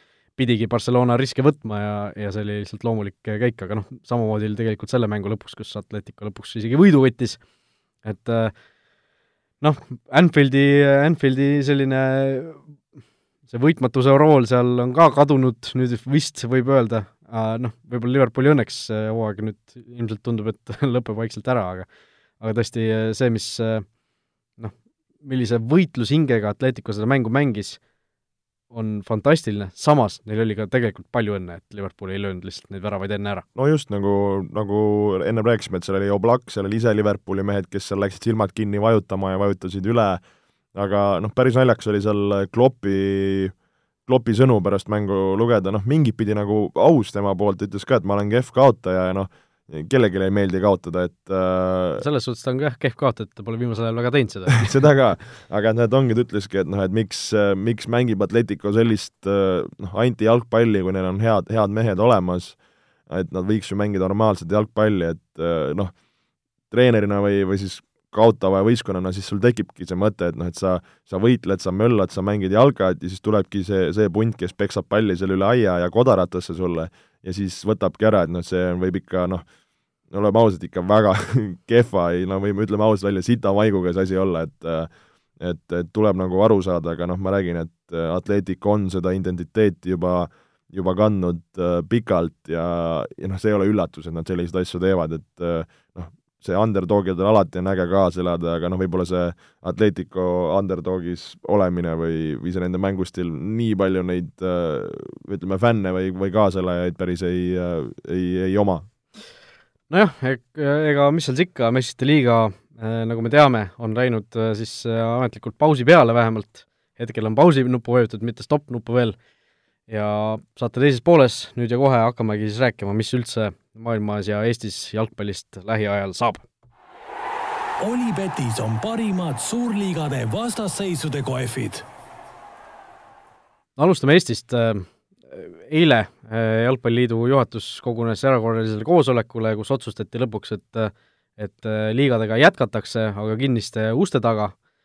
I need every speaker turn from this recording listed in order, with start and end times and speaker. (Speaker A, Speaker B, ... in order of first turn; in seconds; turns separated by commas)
Speaker A: 0.4-7.4, Speaker A: 8.0-8.5, Speaker A: 9.6-12.6, Speaker A: 13.5-21.9, Speaker A: 22.4-23.9, Speaker A: 24.6-27.8, Speaker A: 28.7-33.5, Speaker B: 33.5-40.2, Speaker B: 40.7-43.5, Speaker B: 44.1-52.0, Speaker A: 52.0-54.7, Speaker B: 54.5-62.6, Speaker B: 63.1-65.9, Speaker B: 66.7-79.5, Speaker B: 80.1-108.9, Speaker A: 109.9-119.2, Speaker A: 119.9-126.4, Speaker C: 127.8-131.8, Speaker A: 133.8-144.6